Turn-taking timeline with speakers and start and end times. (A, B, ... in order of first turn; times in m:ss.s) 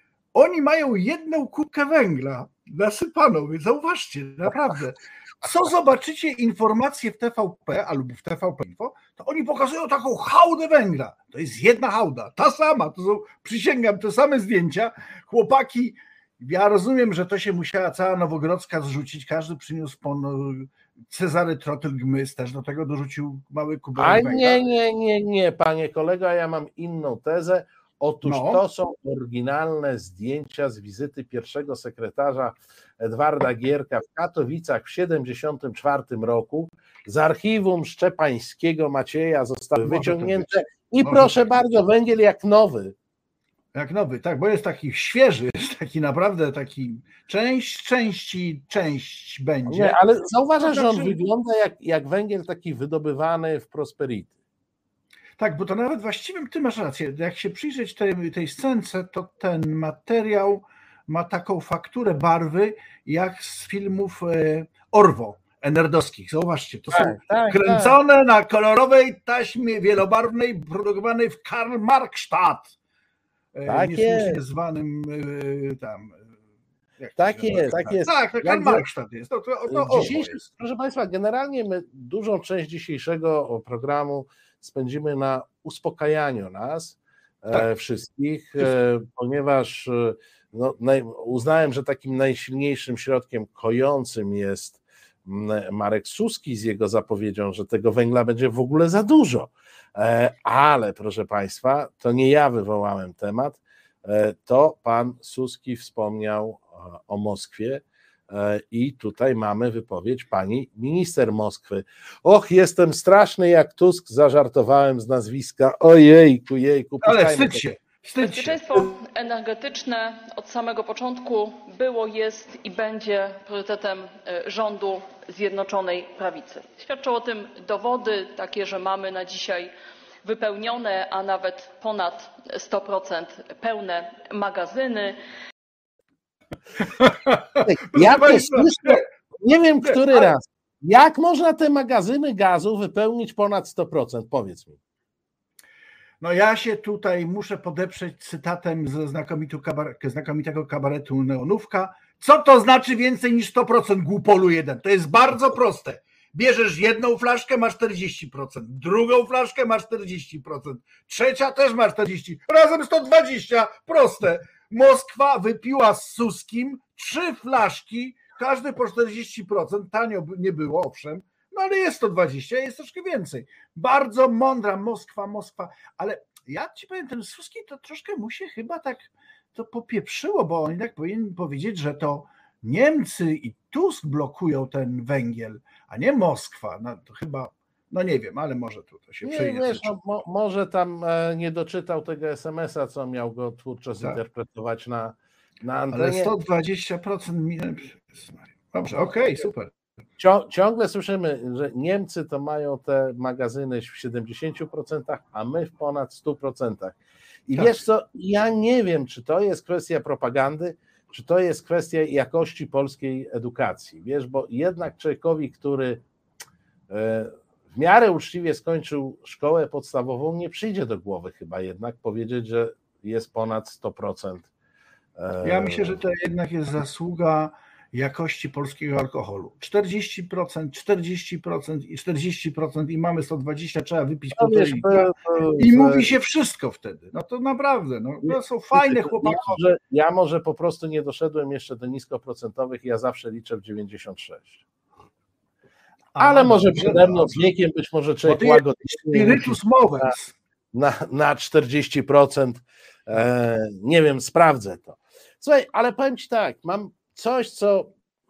0:00.3-0:24.6 A
0:24.0-0:42.9 B
0:28.2-0:28.6 A
0:39.8-0:40.5 A
0:41.0-0:41.5 A
0:43.7-0:49.9 A
0:49.7-0:54.3 B
0:50.6-0:51.2 A
0:55.4-1:12.7 A
1:06.9-1:08.0 B
1:13.5-1:16.3 A
1:13.7-1:14.4 B
1:17.0-1:20.4 A
1:17.2-1:18.8 B
1:19.7-1:57.6 B
1:57.0-1:58.9 A
1:58.2-2:09.7 C
2:10.2-2:15.2 C
2:16.8-2:19.0 A
2:17.6-2:24.8 B
2:19.8-2:20.3 A
2:26.2-3:09.9 A
3:09.2-3:16.3 B
3:15.9-3:19.7 A
3:20.2-3:27.0 B
3:27.5-3:36.0 B
3:36.9-3:44.5 B
3:45.2-3:46.0 B
3:45.4-3:59.6 A
3:54.4-3:56.1 B
3:58.2-4:04.6 B
4:06.1-4:07.5 A
4:06.2-4:10.1 B
4:08.2-4:10.3 A
4:10.7-4:17.9 B